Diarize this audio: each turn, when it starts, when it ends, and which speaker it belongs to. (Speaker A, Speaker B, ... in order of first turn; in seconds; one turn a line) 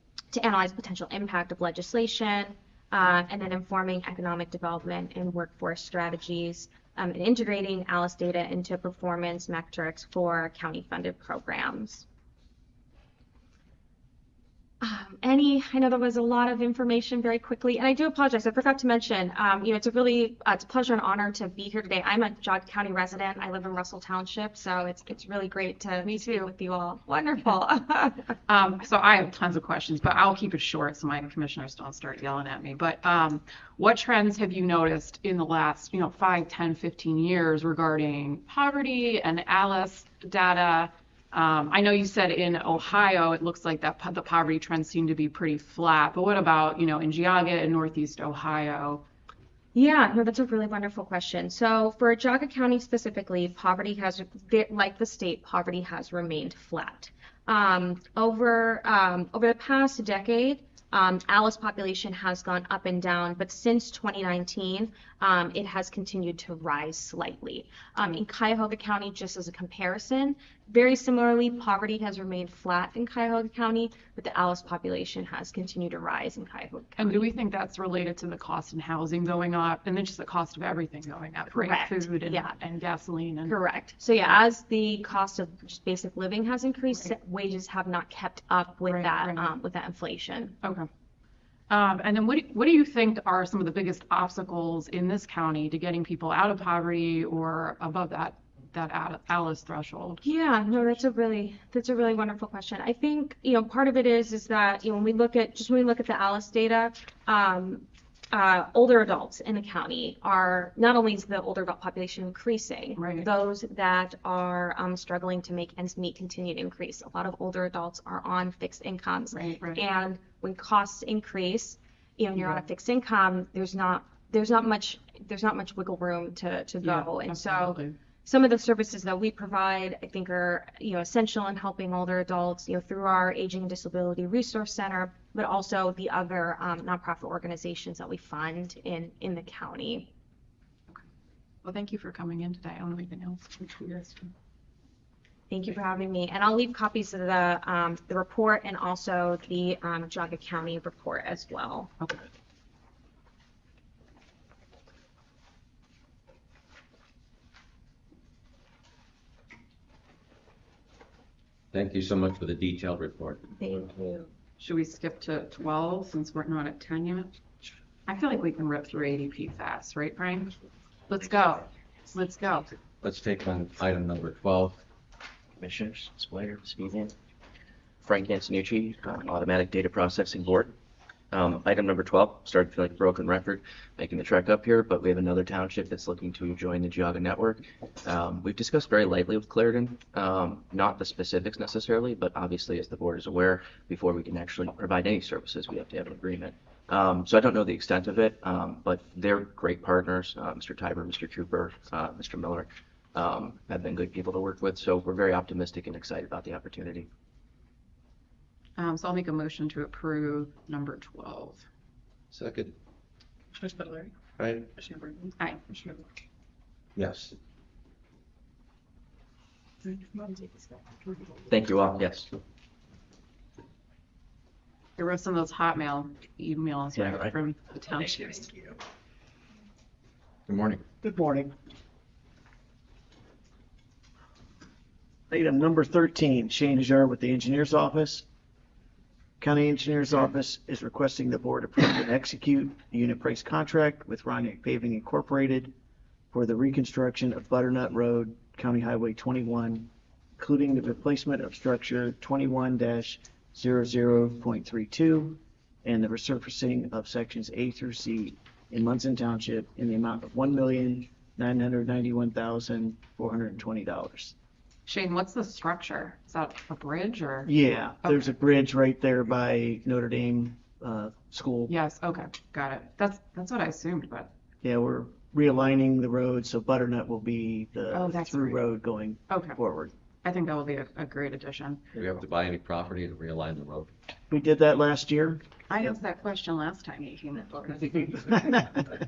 Speaker A: 0.3-12.0
Speaker A: 14.8-28.3
Speaker B: 26.1-26.4
Speaker B: 28.5-49.0
Speaker A: 49.7-77.3
Speaker B: 77.0-83.5
Speaker A: 81.5-82.5
Speaker A: 83.5-90.5
Speaker B: 88.8-89.5
Speaker B: 90.6-90.9
Speaker B: 91.7-100.2
Speaker A: 100.2-140.1
Speaker B: 113.0-113.3
Speaker B: 119.3-119.8
Speaker B: 126.8-127.9
Speaker B: 141.6-144.3
Speaker A: 145.5-151.9
Speaker C: 161.7-164.1
Speaker B: 164.6-167.4
Speaker B: 168.1-170.5
Speaker B: 171.1-172.7
Speaker C: 173.0-174.8
Speaker D: 175.6-177.1
Speaker D: 178.0-180.7
Speaker D: 181.3-207.1
Speaker B: 208.8-211.7
Speaker C: 212.3-212.7
Speaker B: 213.6-214.1
Speaker B: 214.8-216.0
Speaker C: 216.9-217.3
Speaker B: 219.8-221.3
Speaker D: 221.5-222.3
Speaker B: 225.0-228.7
Speaker D: 227.0-227.3
Speaker C: 230.5-230.8
Speaker E: 231.0-231.5
Speaker E: 235.3-238.2
Speaker E: 239.4-245.7
Speaker E: 246.3-264.3
Speaker B: 264.9-267.5
Speaker E: 267.4-271.8
Speaker B: 268.0-268.3
Speaker B: 271.7-274.3
Speaker E: 274.6-279.9
Speaker B: 277.9-278.7
Speaker B: 279.3-279.6
Speaker B: 280.2-281.8
Speaker C: 281.9-283.9
Speaker E: 284.3-285.4
Speaker B: 285.7-288.4